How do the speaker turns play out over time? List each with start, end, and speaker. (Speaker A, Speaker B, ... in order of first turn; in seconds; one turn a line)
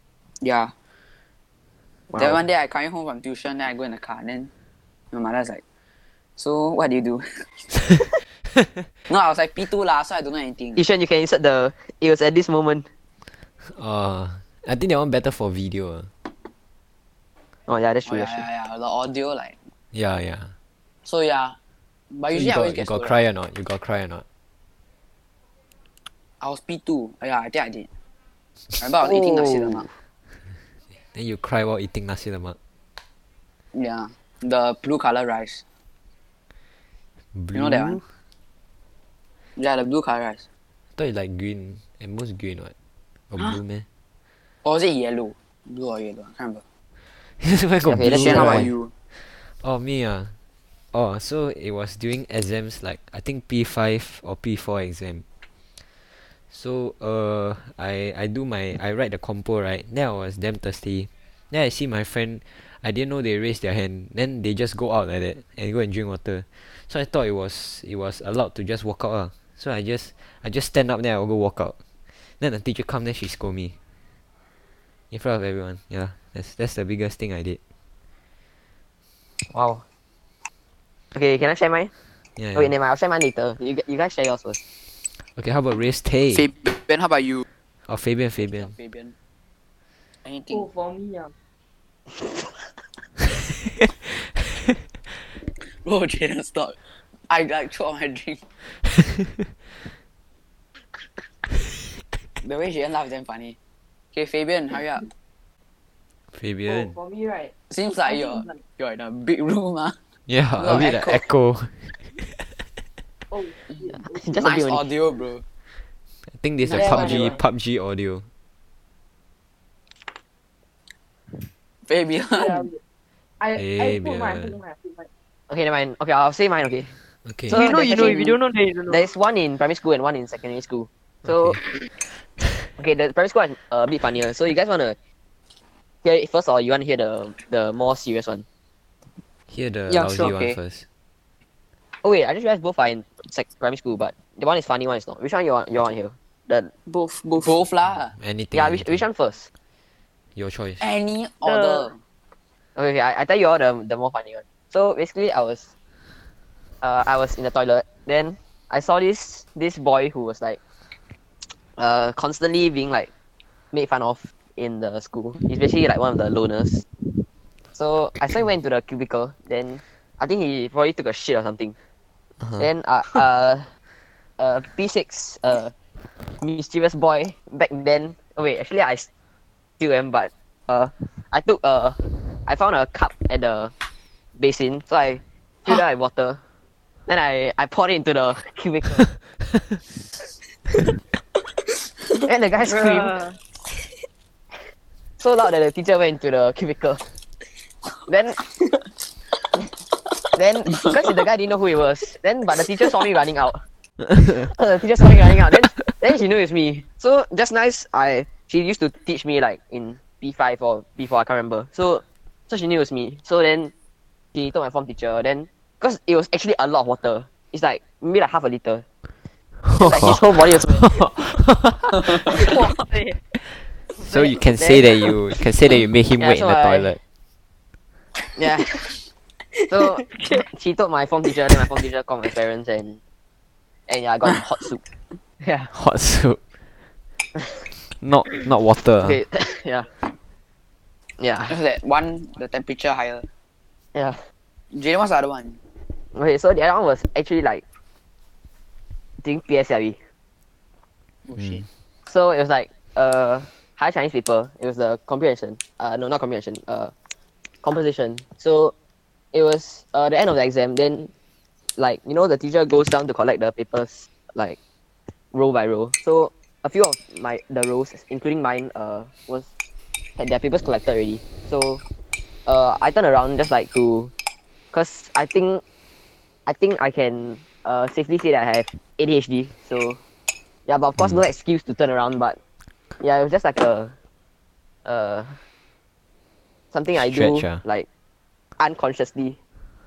Speaker A: 0.4-0.7
Speaker B: 2.1-2.4
Speaker A: 2.1-4.5
Speaker A: 5.1-5.6
Speaker A: 6.4-7.5
Speaker A: 9.1-10.8
Speaker B: 10.8-12.9
Speaker C: 13.6-16.1
Speaker B: 17.7-18.4
Speaker A: 18.1-19.6
Speaker C: 19.9-20.5
Speaker A: 21.0-21.6
Speaker A: 22.1-23.1
Speaker C: 22.3-24.2
Speaker A: 26.4-27.9
Speaker A: 28.8-29.9
Speaker B: 29.0-29.8
Speaker C: 31.1-32.6
Speaker A: 33.7-35.6
Speaker C: 37.3-38.0
Speaker A: 37.5-38.0
Speaker A: 39.6-40.5
Speaker C: 41.0-42.7
Speaker C: 43.3-43.8
Speaker A: 44.6-46.6
Speaker C: 47.4-50.3
Speaker B: 47.9-48.7
Speaker A: 48.0-48.9
Speaker C: 50.9-55.2
Speaker C: 56.5-71.8
Speaker C: 72.4-73.7
Speaker C: 75.1-77.6
Speaker B: 79.4-79.8
Speaker B: 81.1-81.9
Speaker C: 82.4-82.7
Speaker B: 82.5-84.6
Speaker C: 85.2-86.5
Speaker A: 86.3-87.4
Speaker C: 87.9-88.7
Speaker A: 88.5-89.1
Speaker A: 90.2-90.7
Speaker D: 90.5-91.3
Speaker B: 92.2-92.5
Speaker A: 95.7-96.8
Speaker A: 97.3-98.4
Speaker C: 98.7-99.2
Speaker A: 102.4-103.6
Speaker A: 104.1-105.1
Speaker C: 106.3-106.9
Speaker D: 106.7-107.5
Speaker A: 107.7-110.0
Speaker D: 108.0-108.6
Speaker C: 110.3-112.3
Speaker A: 110.6-111.2
Speaker D: 113.3-114.3
Speaker B: 113.9-114.8
Speaker A: 114.3-115.4
Speaker C: 116.3-118.2
Speaker A: 116.7-117.3
Speaker D: 116.7-117.4
Speaker A: 121.8-122.7
Speaker D: 122.3-122.8
Speaker D: 123.4-125.1
Speaker C: 123.5-124.6
Speaker B: 125.5-126.9
Speaker C: 127.2-127.7
Speaker B: 127.5-128.4
Speaker E: 127.5-129.1
Speaker B: 128.9-131.6
Speaker C: 131.2-131.6
Speaker B: 132.8-134.9
Speaker B: 136.0-138.4
Speaker C: 139.5-140.8
Speaker D: 139.9-140.3
Speaker A: 140.1-140.6
Speaker B: 142.0-146.7
Speaker D: 146.9-147.5
Speaker A: 147.4-148.2
Speaker C: 148.1-149.0
Speaker B: 148.5-149.5
Speaker C: 150.3-150.8
Speaker A: 150.8-152.0
Speaker B: 152.8-155.7
Speaker B: 156.8-160.6
Speaker B: 161.4-163.1
Speaker B: 163.7-166.8
Speaker B: 167.7-171.7
Speaker B: 172.6-173.7
Speaker B: 174.4-175.7
Speaker B: 176.3-179.1
Speaker B: 179.8-183.7
Speaker B: 184.4-186.4
Speaker B: 187.1-189.1
Speaker B: 192.2-193.2
Speaker B: 195.2-197.0
Speaker B: 198.1-198.4
Speaker B: 200.3-203.6
Speaker B: 204.2-213.7
Speaker B: 214.3-218.8
Speaker C: 219.6-222.1
Speaker B: 219.8-221.0
Speaker E: 222.3-223.2
Speaker B: 224.0-224.9
Speaker C: 224.0-227.0
Speaker B: 226.2-226.9
Speaker B: 228.3-228.9
Speaker B: 229.7-233.0
Speaker B: 233.9-234.8
Speaker B: 235.4-235.7
Speaker C: 235.7-236.4
Speaker C: 237.8-239.2
Speaker B: 239.0-240.0
Speaker B: 241.2-241.6
Speaker A: 241.5-243.3
Speaker B: 243.9-244.2
Speaker A: 244.7-245.6
Speaker B: 246.1-247.6
Speaker B: 249.2-250.0
Speaker A: 251.3-251.6
Speaker C: 251.3-251.6
Speaker B: 252.1-256.9
Speaker B: 257.6-258.7
Speaker B: 259.3-261.1
Speaker B: 261.8-264.6
Speaker B: 265.3-269.5
Speaker B: 270.2-271.8
Speaker B: 272.4-274.1
Speaker B: 274.7-275.6
Speaker B: 276.4-280.0
Speaker B: 280.6-282.4
Speaker B: 283.0-283.9
Speaker B: 284.8-285.4
Speaker B: 286.7-287.9
Speaker C: 286.9-287.6
Speaker B: 288.6-289.4